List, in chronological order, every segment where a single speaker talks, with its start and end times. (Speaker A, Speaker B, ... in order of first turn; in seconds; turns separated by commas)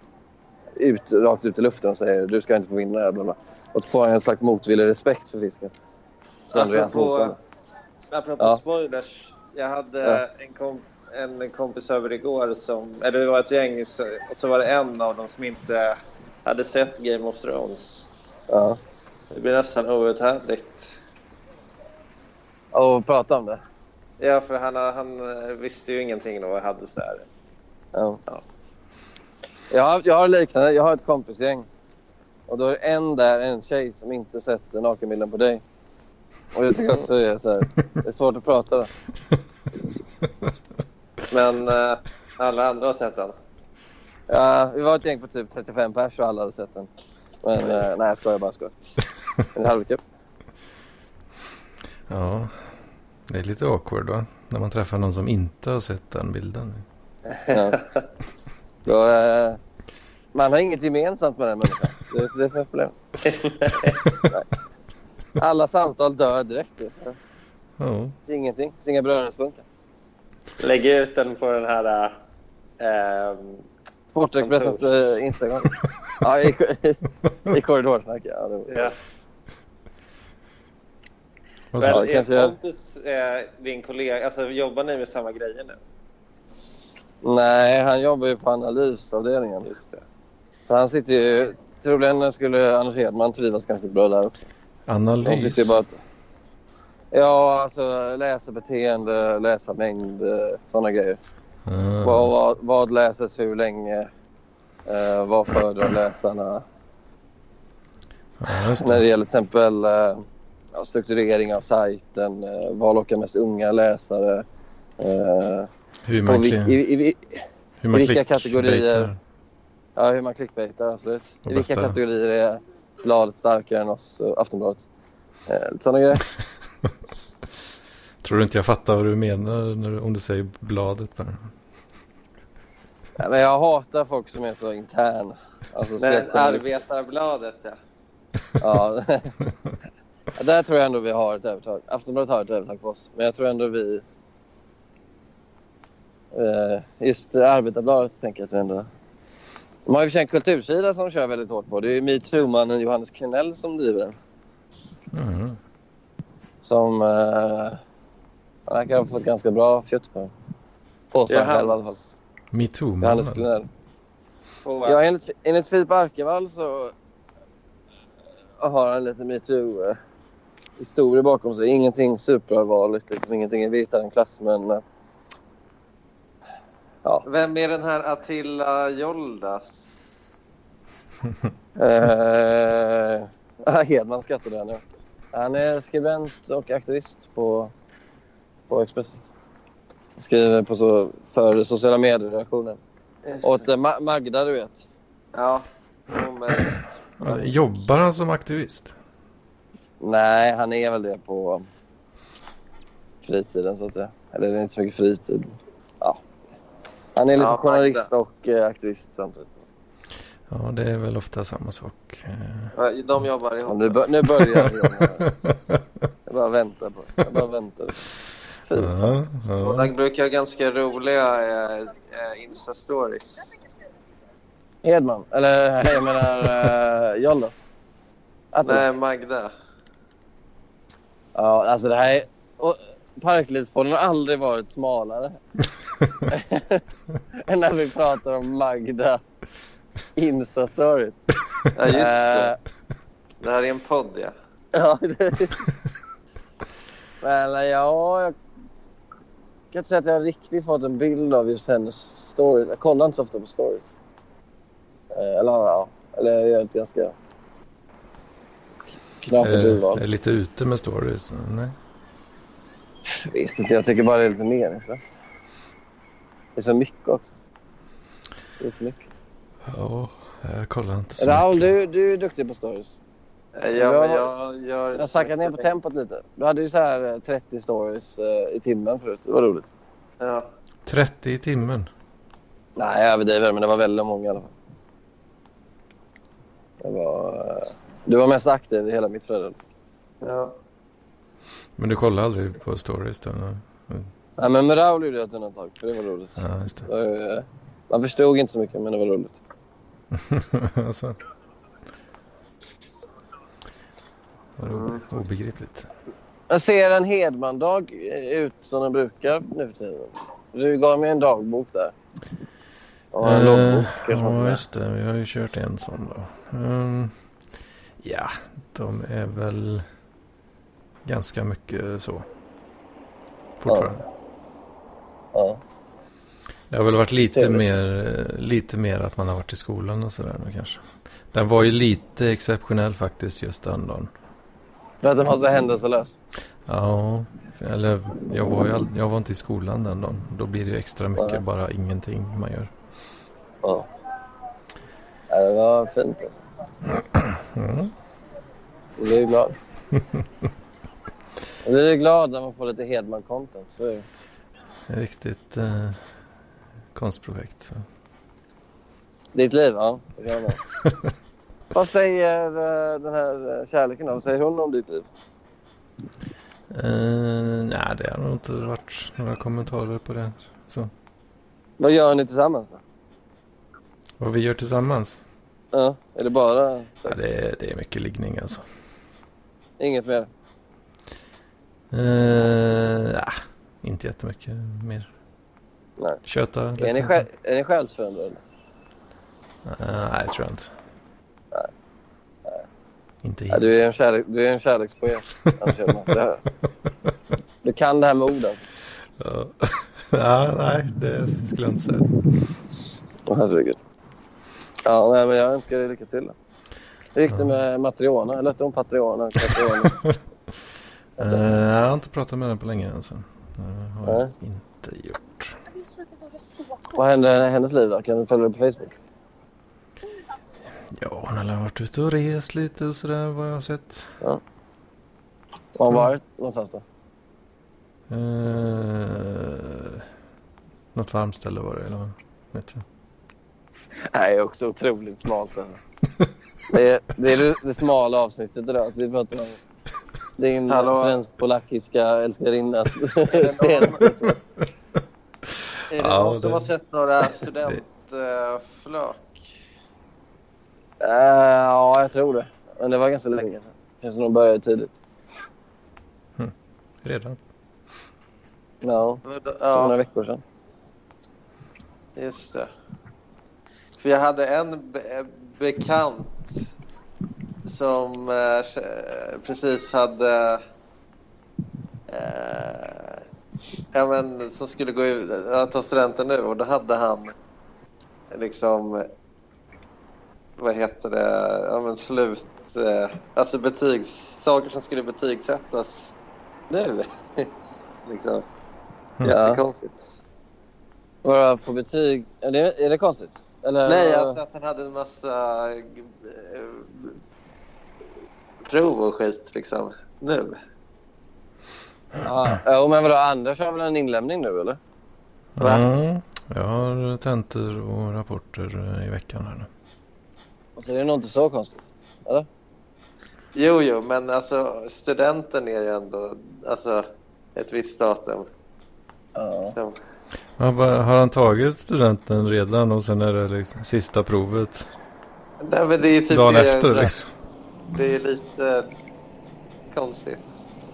Speaker A: 0.8-5.7, Speaker B: 6.5-7.3, Speaker A: 6.5-7.4, Speaker B: 8.1-18.1, Speaker A: 18.5-18.8, Speaker B: 19.3-20.9, Speaker A: 22.7-23.6, Speaker B: 24.2-27.2, Speaker A: 27.9-28.2, Speaker A: 29.7-31.6, Speaker A: 32.5-35.6, Speaker A: 36.5-38.9, Speaker B: 41.3-43.3, Speaker A: 44.3-46.9, Speaker A: 47.4-48.7, Speaker A: 49.5-50.0, Speaker C: 52.1-52.5, Speaker C: 53.3-56.8, Speaker B: 57.3-58.0, Speaker A: 57.5-57.8, Speaker A: 58.8-59.6, Speaker A: 60.3-63.0, Speaker B: 63.2-64.0, Speaker A: 65.4-67.2, Speaker C: 67.8-68.1, Speaker A: 68.2-69.6, Speaker B: 70.6-72.1, Speaker B: 72.8-73.6, Speaker A: 74.1-78.9, Speaker B: 74.4-74.9, Speaker B: 78.7-78.9, Speaker C: 81.7-82.0, Speaker B: 81.8-85.8, Speaker A: 81.8-82.5, Speaker A: 87.2-89.7, Speaker B: 89.6-90.0, Speaker A: 90.7-94.4, Speaker C: 94.9-95.8, Speaker A: 95.2-96.0, Speaker A: 97.1-101.2, Speaker C: 101.7-102.3, Speaker A: 102.0-104.1, Speaker A: 104.8-106.6, Speaker C: 108.4-109.0, Speaker A: 108.7-114.4, Speaker A: 115.0-115.7, Speaker C: 116.0-116.8, Speaker A: 116.2-119.1, Speaker C: 117.8-119.2, Speaker A: 120.0-124.8, Speaker C: 121.4-122.0, Speaker A: 125.5-126.2, Speaker C: 128.2-131.5, Speaker A: 133.2-136.7, Speaker B: 136.0-137.8, Speaker A: 138.6-139.3, Speaker A: 140.3-144.0, Speaker A: 146.3-148.9, Speaker A: 149.8-154.1, Speaker C: 155.1-155.6, Speaker A: 156.6-157.8, Speaker A: 158.7-160.3, Speaker A: 161.1-162.0, Speaker B: 161.3-162.0, Speaker C: 162.5-163.5, Speaker A: 163.0-163.7, Speaker B: 164.6-165.0, Speaker A: 164.8-166.9, Speaker A: 168.6-170.0, Speaker A: 170.8-174.8, Speaker B: 177.2-180.0, Speaker A: 181.8-187.7, Speaker A: 188.7-189.2, Speaker A: 190.2-192.8, Speaker B: 193.2-193.6, Speaker A: 193.4-194.8, Speaker B: 195.3-197.5, Speaker C: 197.2-198.9, Speaker A: 200.0-201.7, Speaker A: 203.2-206.2, Speaker A: 207.2-209.7, Speaker B: 207.3-208.1, Speaker C: 210.5-212.7, Speaker B: 212.7-214.0, Speaker A: 213.7-215.3, Speaker C: 215.2-215.8, Speaker A: 216.3-218.0, Speaker A: 218.7-219.1, Speaker C: 218.7-219.9, Speaker B: 219.6-223.5, Speaker A: 224.8-227.6, Speaker A: 228.5-228.8, Speaker B: 228.6-229.5, Speaker A: 231.3-235.4, Speaker A: 236.3-239.2, Speaker A: 240.2-241.2, Speaker B: 241.7-242.5, Speaker A: 241.9-242.6, Speaker B: 243.4-244.3, Speaker A: 244.7-245.6, Speaker A: 247.2-248.3, Speaker A: 249.7-253.8, Speaker A: 255.1-257.1, Speaker A: 259.2-260.0, Speaker C: 259.4-261.7, Speaker A: 263.1-265.2, Speaker A: 266.6-267.3, Speaker A: 268.6-269.0, Speaker C: 269.6-271.7, Speaker A: 271.2-273.0, Speaker B: 273.6-275.7, Speaker A: 273.8-274.3, Speaker A: 274.9-279.7, Speaker B: 280.2-280.5, Speaker C: 280.9-281.9, Speaker A: 282.8-284.5, Speaker A: 286.8-289.6, Speaker B: 290.2-290.6, Speaker C: 291.8-294.1, Speaker A: 294.4-299.4, Speaker C: 296.4-296.9, Speaker C: 300.1-301.2, Speaker C: 304.6-305.9, Speaker B: 304.7-305.0, Speaker A: 306.5-311.9, Speaker A: 313.1-314.6, Speaker C: 313.2-317.1, Speaker C: 318.0-319.8, Speaker C: 321.0-322.2, Speaker C: 323.6-324.0, Speaker A: 323.7-323.9, Speaker A: 325.3-325.6, Speaker C: 326.7-334.1, Speaker A: 327.2-327.6, Speaker A: 335.0-336.2, Speaker C: 336.6-342.7, Speaker A: 341.1-341.4, Speaker A: 345.3-346.4, Speaker C: 346.9-347.9, Speaker A: 349.0-349.6, Speaker A: 351.6-354.0, Speaker C: 354.9-356.0, Speaker C: 356.9-357.8, Speaker A: 359.3-360.6, Speaker A: 361.7-365.1, Speaker C: 366.7-370.9, Speaker A: 371.8-372.8, Speaker C: 374.2-375.2, Speaker A: 375.7-377.2, Speaker C: 377.1-378.6, Speaker A: 379.8-380.3, Speaker C: 381.9-385.1, Speaker C: 386.2-387.2, Speaker A: 386.8-388.4, Speaker C: 389.6-390.7, Speaker C: 393.2-393.7, Speaker A: 393.5-396.4, Speaker A: 397.6-398.6, Speaker C: 399.2-402.1, Speaker A: 403.3-403.8, Speaker A: 404.8-406.3, Speaker A: 407.1-410.0, Speaker C: 409.5-410.1, Speaker C: 411.2-415.6, Speaker A: 411.2-411.4, Speaker A: 414.0-414.3, Speaker A: 416.9-419.0, Speaker C: 420.9-424.1, Speaker A: 425.7-426.8, Speaker C: 428.1-430.0, Speaker C: 430.9-432.8, Speaker A: 434.1-435.8, Speaker A: 436.7-439.6, Speaker A: 440.4-444.4, Speaker B: 440.7-441.2, Speaker B: 443.2-444.2, Speaker B: 445.9-449.4, Speaker C: 445.9-446.7, Speaker A: 451.0-455.0, Speaker C: 457.0-457.4, Speaker A: 458.8-459.2, Speaker B: 459.2-459.9, Speaker A: 459.7-460.4, Speaker B: 462.2-462.7, Speaker B: 464.0-466.6, Speaker B: 467.7-470.6, Speaker B: 472.1-473.2, Speaker B: 473.9-477.3, Speaker B: 478.3-479.1, Speaker B: 480.6-486.1, Speaker B: 486.7-487.5, Speaker B: 488.1-488.4, Speaker B: 489.2-490.1, Speaker A: 489.2-489.6, Speaker A: 491.2-494.4, Speaker B: 493.9-497.1, Speaker B: 498.6-500.6, Speaker A: 502.2-504.8, Speaker C: 505.6-509.7, Speaker A: 510.8-512.5, Speaker B: 513.5-518.5, Speaker A: 519.4-519.8, Speaker B: 519.7-520.0, Speaker C: 520.6-524.9, Speaker B: 525.6-527.1, Speaker C: 526.3-527.3, Speaker B: 527.9-528.9, Speaker B: 529.9-530.5